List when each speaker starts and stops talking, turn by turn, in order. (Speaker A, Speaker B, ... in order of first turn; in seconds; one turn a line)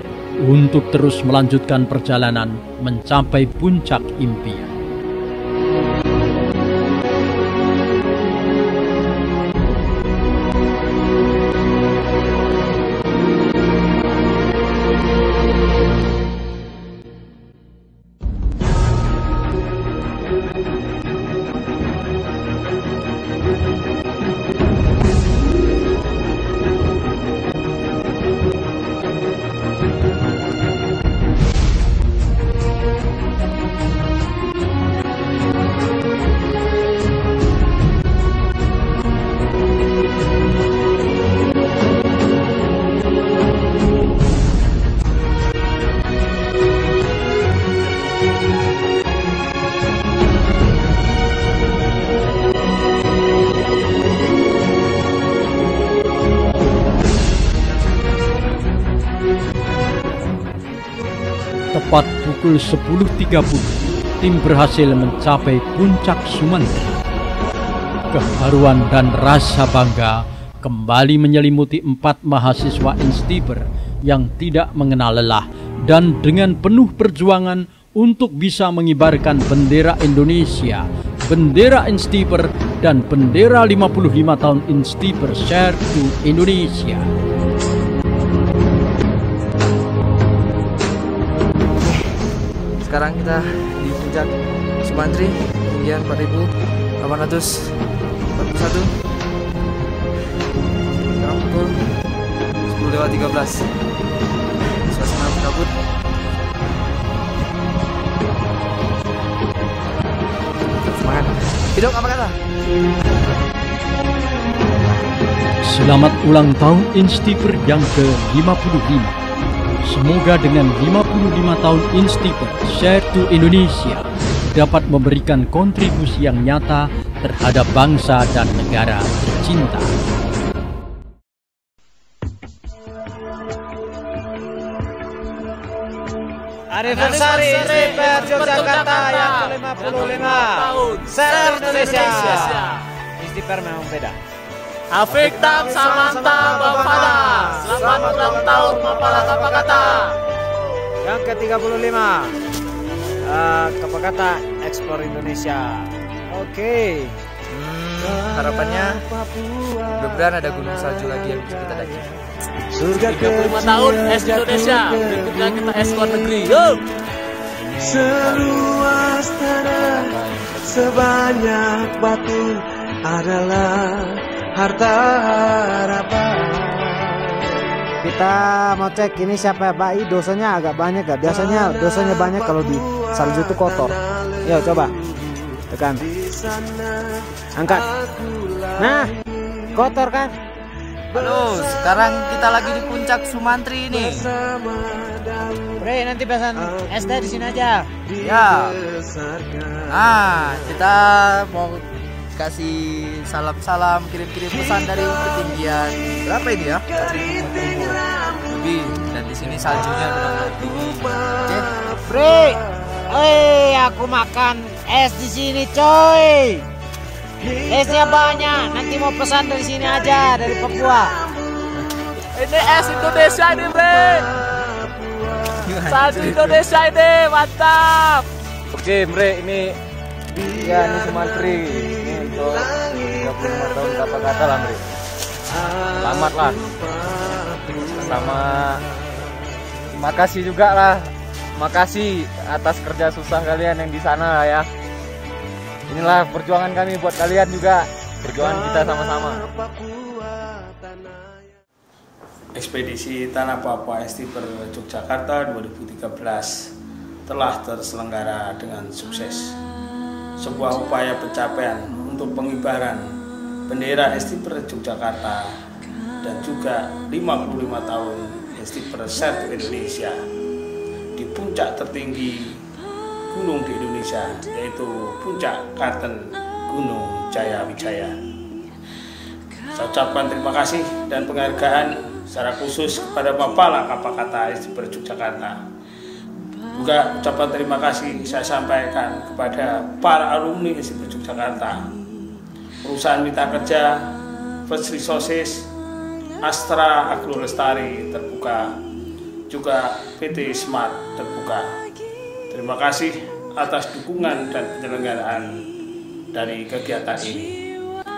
Speaker A: 0.4-4.7
Speaker A: 61.7-67.0
Speaker A: 68.1-87.1
Speaker B: 91.8-92.2
Speaker B: 92.8-99.0
Speaker B: 101.1-102.0
Speaker B: 102.7-103.7
Speaker B: 104.9-105.7
Speaker B: 110.8-112.4
Speaker A: 115.7-119.2
Speaker A: 119.9-129.9
Speaker C: 136.7-144.2
Speaker D: 136.8-142.8
Speaker D: 144.9-150.2
Speaker C: 145.3-149.8
Speaker C: 151.1-152.3
Speaker C: 153.2-157.2
Speaker B: 157.5-159.1
Speaker B: 159.9-162.2
Speaker D: 162.8-166.8
Speaker E: 167.5-171.6
Speaker C: 178.0-184.9
Speaker C: 185.7-186.1
Speaker C: 187.6-187.9
Speaker C: 188.8-189.1
Speaker C: 189.7-190.3
Speaker B: 191.1-194.3
Speaker C: 195.8-197.9
Speaker B: 198.2-198.8
Speaker B: 199.9-211.7
Speaker C: 212.1-216.7
Speaker C: 217.7-221.1
Speaker D: 222.4-224.3
Speaker B: 225.7-226.6
Speaker D: 225.8-228.3
Speaker F: 228.7-229.8
Speaker F: 230.6-234.8
Speaker F: 236.0-236.6
Speaker F: 238.0-238.7
Speaker F: 239.9-244.7
Speaker F: 245.9-249.5
Speaker G: 252.6-256.6
Speaker G: 257.3-259.6
Speaker G: 260.4-263.1
Speaker G: 263.7-265.5
Speaker G: 266.2-270.2
Speaker G: 271.2-272.6
Speaker G: 273.3-278.2
Speaker G: 279.7-285.6
Speaker G: 286.8-291.9
Speaker G: 292.8-293.9
Speaker G: 294.7-295.7
Speaker G: 296.4-298.7
Speaker G: 299.5-301.7
Speaker G: 302.5-305.6
Speaker G: 306.3-307.6